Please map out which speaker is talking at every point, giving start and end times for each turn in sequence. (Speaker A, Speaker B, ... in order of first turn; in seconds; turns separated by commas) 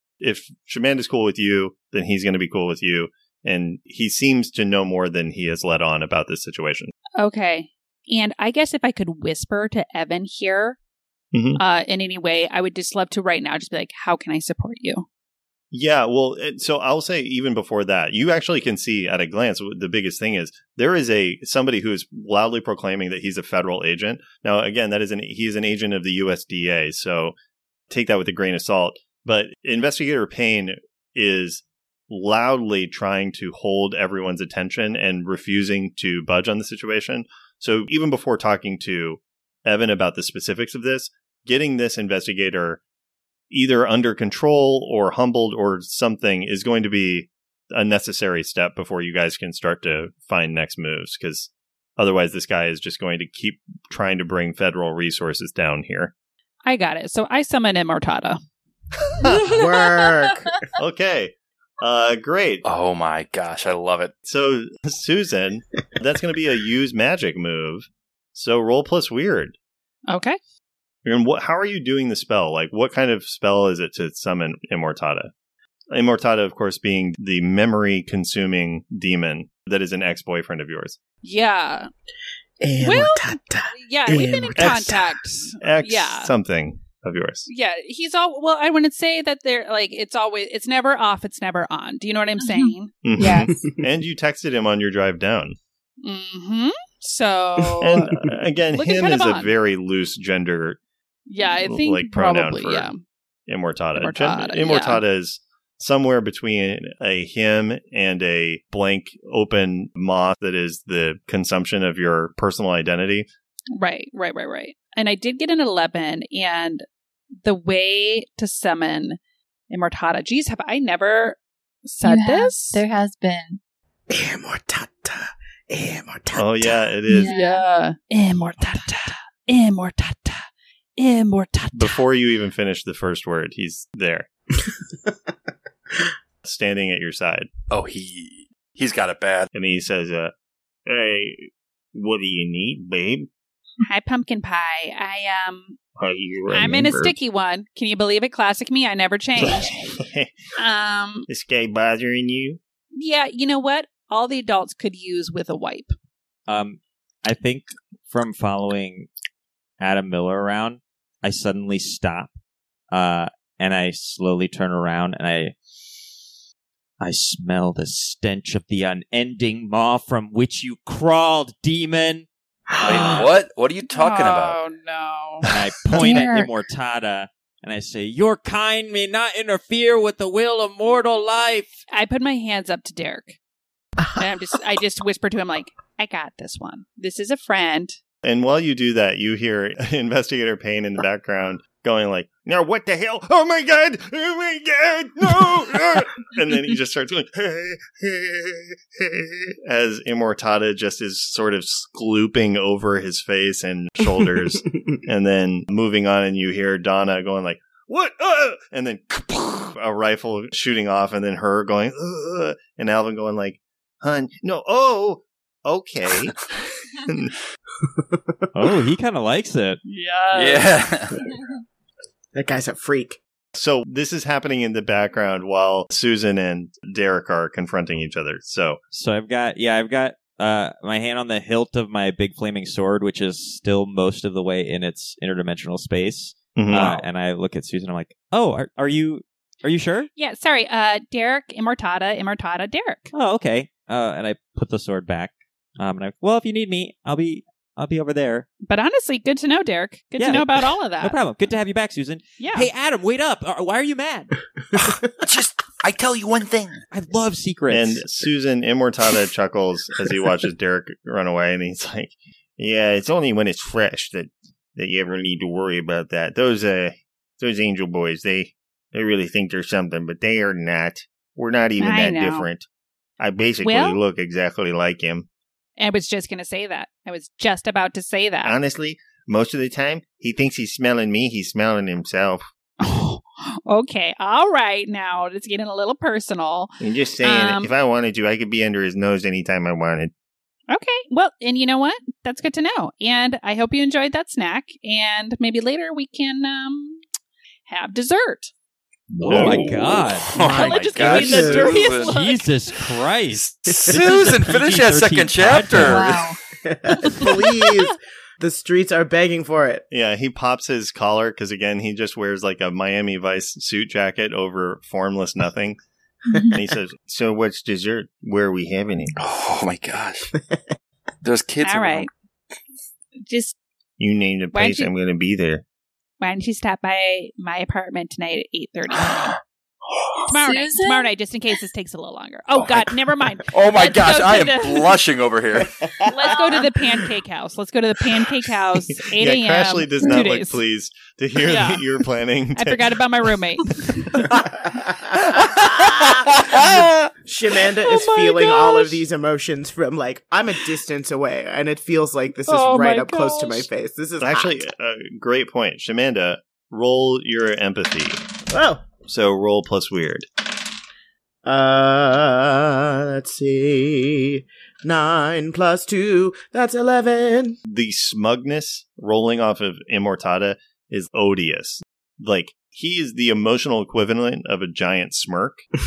Speaker A: 0.2-6.9, Speaker B: 7.2-10.8, Speaker A: 11.3-11.6, Speaker B: 11.6-15.1, Speaker A: 15.7-27.4, Speaker A: 27.9-42.8, Speaker A: 43.5-56.1, Speaker B: 56.7-58.4, Speaker A: 59.2-59.5, Speaker C: 59.3-60.6, Speaker B: 59.5-59.8, Speaker A: 60.8-62.6, Speaker D: 62.6-64.1, Speaker A: 64.2-69.5, Speaker B: 70.1-70.4, Speaker A: 71.0-75.3, Speaker A: 75.9-81.0, Speaker B: 81.2-81.9, Speaker C: 82.6-85.1, Speaker B: 82.8-86.3, Speaker A: 84.6-85.0, Speaker A: 85.6-87.5, Speaker B: 87.5-93.5, Speaker E: 92.4-92.7, Speaker A: 93.0-95.6, Speaker C: 93.2-93.8, Speaker B: 96.0-98.1, Speaker A: 97.8-100.8, Speaker B: 98.7-99.5, Speaker B: 101.3-103.0, Speaker A: 101.6-102.9, Speaker A: 103.5-113.3, Speaker B: 104.0-105.0, Speaker B: 113.8-116.8, Speaker B: 117.4-119.2, Speaker B: 119.7-122.8, Speaker E: 122.0-123.6, Speaker C: 124.1-126.9, Speaker A: 126.4-127.3, Speaker E: 127.1-127.7, Speaker B: 127.1-130.5, Speaker B: 131.0-132.0, Speaker A: 131.7-134.3, Speaker C: 134.7-135.1, Speaker A: 136.4-137.5, Speaker D: 137.7-139.5, Speaker A: 139.5-140.3, Speaker A: 140.9-143.3, Speaker B: 143.8-145.8, Speaker A: 146.0-147.2, Speaker B: 146.5-149.8, Speaker A: 149.4-150.3, Speaker B: 150.6-151.3, Speaker A: 151.3-152.6, Speaker B: 152.9-155.9, Speaker F: 156.5-159.1, Speaker F: 159.8-162.3, Speaker F: 162.9-165.6, Speaker F: 167.0-172.3, Speaker F: 172.8-173.2, Speaker D: 172.8-174.6, Speaker B: 173.9-175.4, Speaker F: 175.4-181.8, Speaker E: 176.0-176.5, Speaker B: 181.9-183.4, Speaker B: 184.1-187.9, Speaker A: 188.2-217.3, Speaker C: 217.8-218.3, Speaker F: 218.5-219.8, Speaker B: 219.9-220.7, Speaker D: 220.3-221.2, Speaker C: 222.3-223.2, Speaker A: 223.6-228.8, Speaker F: 228.9-240.1, Speaker A: 236.6-237.0, Speaker B: 240.2-243.1, Speaker F: 243.1-248.5, Speaker B: 248.7-251.2, Speaker F: 250.2-254.3, Speaker B: 252.4-252.7, Speaker D: 255.2-256.8, Speaker F: 256.9-258.1, Speaker A: 257.7-272.7, Speaker B: 271.8-272.5, Speaker A: 273.2-275.3, Speaker B: 273.6-274.0, Speaker B: 275.8-278.6, Speaker A: 278.4-282.5, Speaker B: 282.8-287.7, Speaker A: 286.8-290.1, Speaker B: 290.7-297.0, Speaker B: 297.7-298.5, Speaker D: 299.2-302.1, Speaker A: 299.2-299.7, Speaker F: 299.3-306.3, Speaker B: 300.4-302.5, Speaker C: 301.1-301.7, Speaker D: 303.4-306.2, Speaker E: 305.8-306.4, Speaker C: 306.6-309.9, Speaker A: 309.9-315.8, Speaker A: 316.5-319.1, Speaker D: 319.2-320.3, Speaker D: 321.2-322.1, Speaker B: 321.6-322.1, Speaker B: 323.2-323.6, Speaker A: 324.0-325.6, Speaker B: 324.5-324.9, Speaker B: 326.2-329.3, Speaker D: 329.0-329.4, Speaker D: 329.9-330.2, Speaker B: 330.3-335.0, Speaker E: 330.3-331.1, Speaker D: 332.6-336.4, Speaker B: 336.1-340.6, Speaker A: 339.1-343.0, Speaker B: 341.4-341.9, Speaker B: 342.6-344.3, Speaker C: 344.3-354.6, Speaker D: 345.4-345.9, Speaker B: 347.8-349.0, Speaker B: 352.5-353.7, Speaker A: 354.2-358.2, Speaker C: 358.5-358.9, Speaker A: 359.1-360.3, Speaker C: 361.4-367.6, Speaker A: 367.7-375.6